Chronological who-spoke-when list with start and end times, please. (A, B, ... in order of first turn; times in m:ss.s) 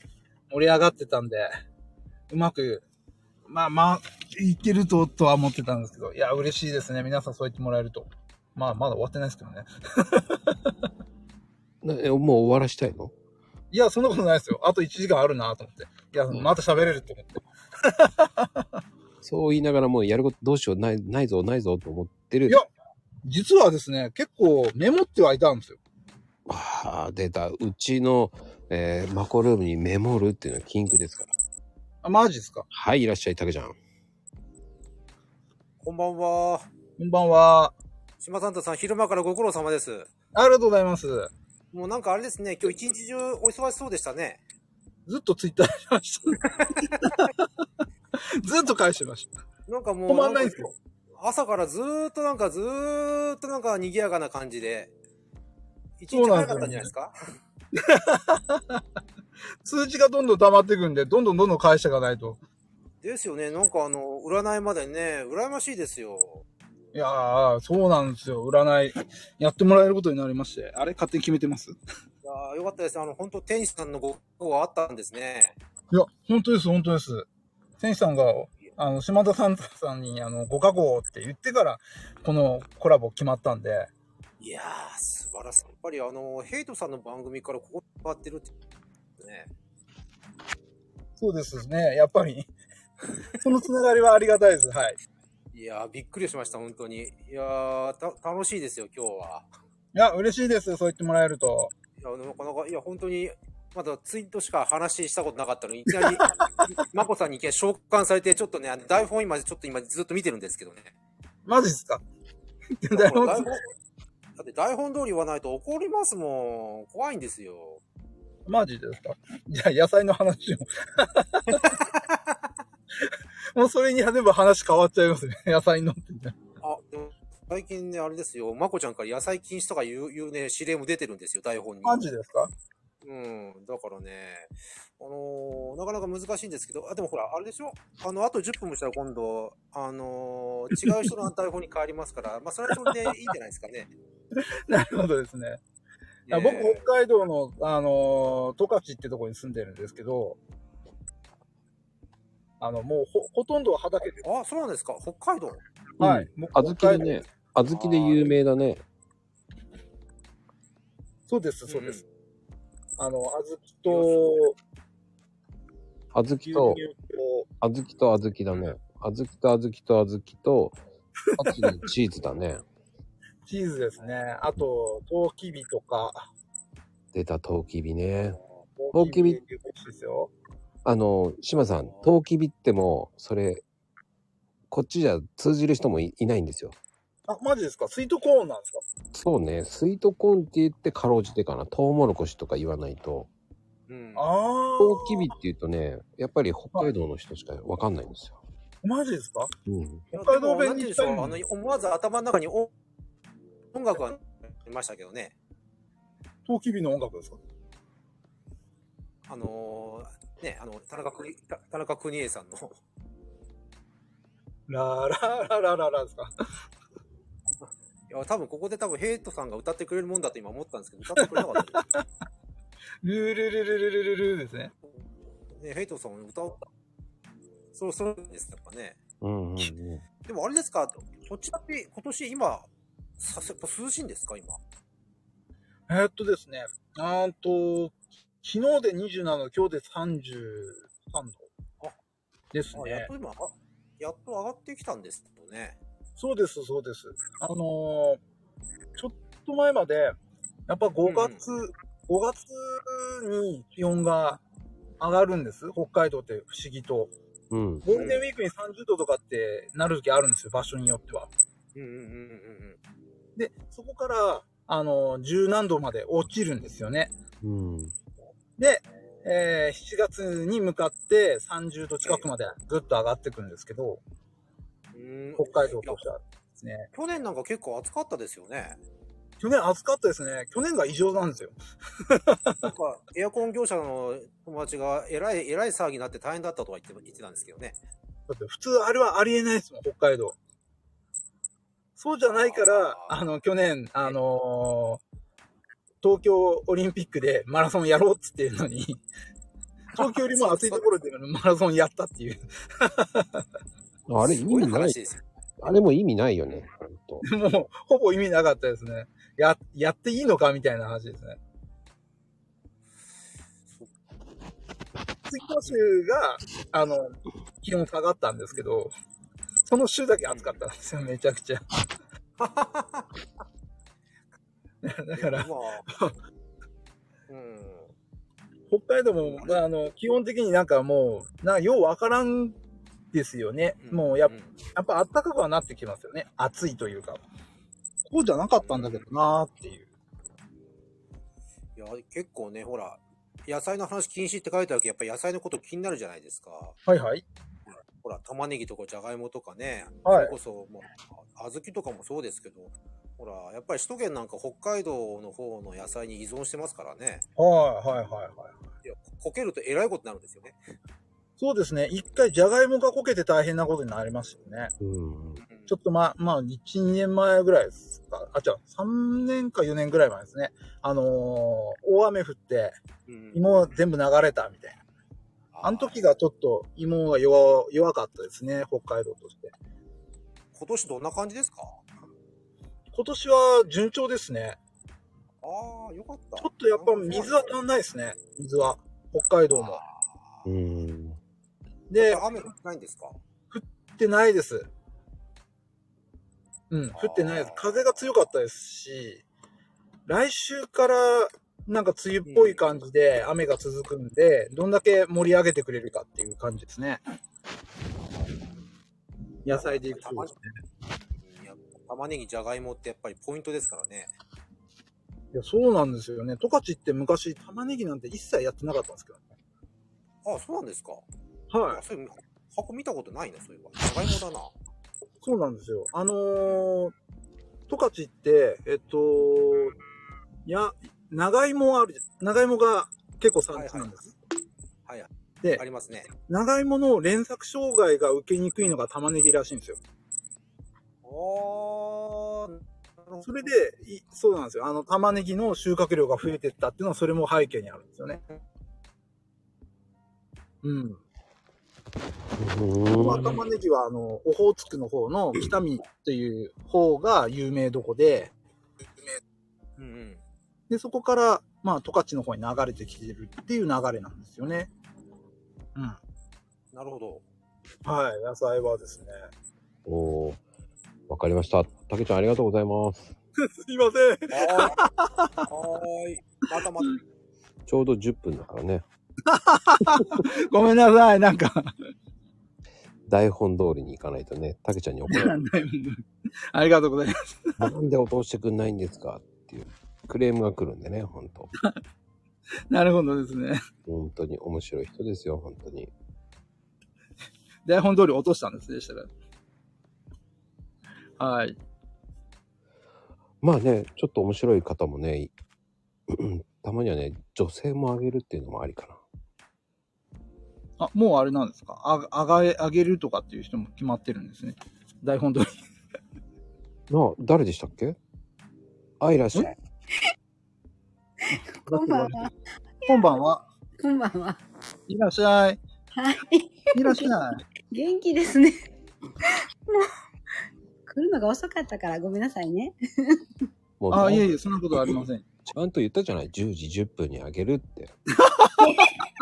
0:00.5-0:01.5 A
0:02.3-0:02.8 A
0:03.5-0:10.4 A
0:11.8-0:13.1 B
0:13.7-0:18.6 A
0:19.2-0:22.6 B
0:23.2-0:25.8 A
0:26.5-0:31.3 B
0:32.0-0:32.6 A
0:32.7-0:33.8 B
0:35.8-0:36.7 C
0:37.0-0:37.7 A
0:38.2-0:40.1 C
0:40.3-0:41.3 A
0:41.7-0:44.4 C
0:45.1-0:47.4 A
0:46.6-0:46.9 C
0:48.4-0:49.3 A
0:49.7-0:54.9 C
0:50.1-0:50.7 A
0:56.0-0:57.1 C
0:56.1-0:56.9 A
0:57.8-0:58.8 A
0:59.6-1:02.4 A
1:03.0-1:06.4 C
1:06.9-1:11.7 A
1:12.2-1:15.5 C
1:15.9-1:17.3 A
1:17.8-1:23.9 A
1:24.4-1:28.5 C
1:29.2-1:29.5 C
1:31.2-1:32.5 A
1:33.4-1:35.0 A
1:35.5-1:39.5 C
1:39.9-1:41.7 A
1:42.0-1:50.9 C
1:51.4-1:52.0 A
1:52.8-1:53.5 A
1:52.9-1:53.6 C
1:54.4-1:57.8 C
1:58.4-2:01.7 A
2:01.5-2:02.3 C
2:03.5-2:06.4 A
2:06.6-2:12.0 C
2:11.8-2:12.5 A
2:13.0-2:23.9 C
2:24.7-2:25.6 A
2:26.3-2:26.8 C
2:26.3-2:30.4 A
2:32.6-2:34.2 A
2:34.2-2:35.6 C
2:36.0-2:37.2 A
2:36.0-2:38.8 B
2:37.7-2:38.3 C
2:41.3-2:42.0 A
2:41.7-2:42.0 C
2:43.0-2:44.6 A
2:43.9-2:44.2 C
2:46.1-2:46.8 B
2:46.4-2:47.5 A
2:47.6-2:50.8 B
2:51.4-2:51.6 A
2:51.4-2:52.6 B
2:53.4-2:56.3 A
2:57.1-2:58.4 B
2:58.8-3:00.3 A
2:58.9-2:59.4 B
3:00.8-3:03.6 B
3:04.7-3:06.8 B
3:07.3-3:08.8 A
3:09.1-3:13.3 B
3:13.9-3:14.2 C
3:14.2-3:15.3 A
3:14.8-3:18.4 B
3:18.8-3:19.5 A
3:19.6-3:20.0 B
3:20.1-3:21.4 A
3:20.1-3:22.7 C
3:23.7-3:25.3 C
3:26.4-3:27.4 A
3:29.3-3:32.8 C
3:34.7-3:36.3 A
3:37.6-3:41.9 C
3:41.2-3:42.0 A
3:43.0-3:44.7 A
3:45.5-3:46.6 C
3:47.7-3:49.0 C
3:49.2-3:50.0 B
3:50.2-3:52.7 C
3:53.2-3:54.6 C
3:55.9-4:01.5 A
4:02.5-4:03.1 A
4:02.7-4:05.8 C
4:06.2-4:08.2 A
4:09.0-4:10.1 A
4:10.7-4:14.4 A
4:11.0-4:11.4 C
4:15.0-4:17.1 A
4:17.5-4:17.8 B
4:17.8-4:21.3 A
4:17.9-4:18.2 C
4:21.7-4:22.8 C
4:23.4-4:27.1 A
4:27.4-4:27.9 B
4:28.6-4:34.0 A
4:34.9-4:36.0 C
4:35.4-4:36.9 A
4:36.9-4:38.8 C
4:39.4-4:41.5 A
4:42.1-4:42.7 A
4:42.6-4:47.8 C
4:48.3-4:50.4 A
4:52.0-4:55.0 A
4:52.3-4:53.2 C
4:56.0-4:59.0 A
4:59.9-5:00.8 C
4:59.9-5:03.4 A
5:04.1-5:05.0 B
5:04.2-5:05.2 C
5:05.6-5:07.2 B
5:07.2-5:11.4 A
5:15.3-5:18.9 A
5:19.6-5:21.6 A
5:20.3-5:20.6 C
5:22.4-5:23.1 C
5:24.8-5:26.1 A
5:25.1-5:25.9 C
5:27.3-5:27.9 C
5:28.7-5:32.6 A
5:29.2-5:29.6 C
5:33.1-5:37.2 A
5:33.8-5:34.5 C
5:38.1-5:39.9 A
5:38.6-5:39.0 C
5:41.8-5:46.8 C
5:46.8-5:47.2 A
5:48.0-5:57.2 C
5:50.0-5:50.3 A
5:57.4-5:58.5 A
5:58.8-6:00.6 C
6:01.4-6:04.7 A
6:04.8-6:05.4 B
6:05.4-6:05.7 C
6:05.7-6:12.8 A
6:13.1-6:13.5 C
6:13.3-6:14.8 A
6:15.5-6:16.0 C
6:15.6-6:19.5 A
6:20.5-6:21.8 C
6:22.9-6:24.6 A
6:25.4-6:27.6 C
6:26.4-6:29.8 A
6:29.5-6:30.4 C
6:30.4-6:31.2 B
6:31.9-6:32.2 A
6:32.0-6:33.2 C
6:33.5-6:34.7 A
6:36.7-6:39.2 A
6:37.0-6:37.7 C
6:40.1-6:47.0 A
6:42.2-6:42.6 C
6:49.4-6:50.5 A
6:49.5-6:50.3 C
6:51.2-6:54.1 C
6:55.3-6:59.2 A
7:00.2-7:01.0 C
7:01.5-7:01.8 A
7:01.7-7:04.5 C
7:05.2-7:06.9 A
7:07.7-7:09.7 A
7:10.4-7:14.1 A
7:13.5-7:13.9 C
7:14.8-7:16.1 C
7:16.2-7:19.8 A
7:21.0-7:23.5 C
7:23.2-7:28.2 A
7:30.6-7:31.0 A
7:32.4-7:33.4 B
7:32.9-7:38.3 A
7:39.8-7:40.2 C
7:40.7-7:44.7 A
7:46.7-7:47.2 C
7:47.8-7:49.1 A
7:49.8-7:50.4 B
7:51.1-7:53.1 B
7:53.6-7:55.4 A
7:54.3-7:54.8 C
7:55.5-7:57.0 C
7:57.7-7:58.8 B
7:59.3-8:01.7 A
8:03.1-8:05.4 B
8:05.1-8:07.1 A
8:07.6-8:11.5 B
8:12.7-8:13.6 A
8:13.8-8:15.9 B
8:17.6-8:19.1 A
8:21.2-8:21.6 A
8:23.4-8:25.3 B
8:26.1-8:29.0 B
8:30.8-8:35.5 A
8:36.9-8:38.0 B
8:39.0-8:39.5 B
8:41.3-8:42.3 A
8:41.5-8:42.3 D
8:42.8-8:43.4 A
8:43.8-8:44.4 D
8:44.9-8:45.6 A
8:45.9-8:47.1 D
8:46.7-8:47.4 A
8:47.7-8:48.6 D
8:49.2-8:49.9 D
8:50.9-8:53.2 D
8:53.8-8:57.9 B
8:53.9-8:55.2 A
8:58.2-8:58.8 A
8:58.6-8:58.9 D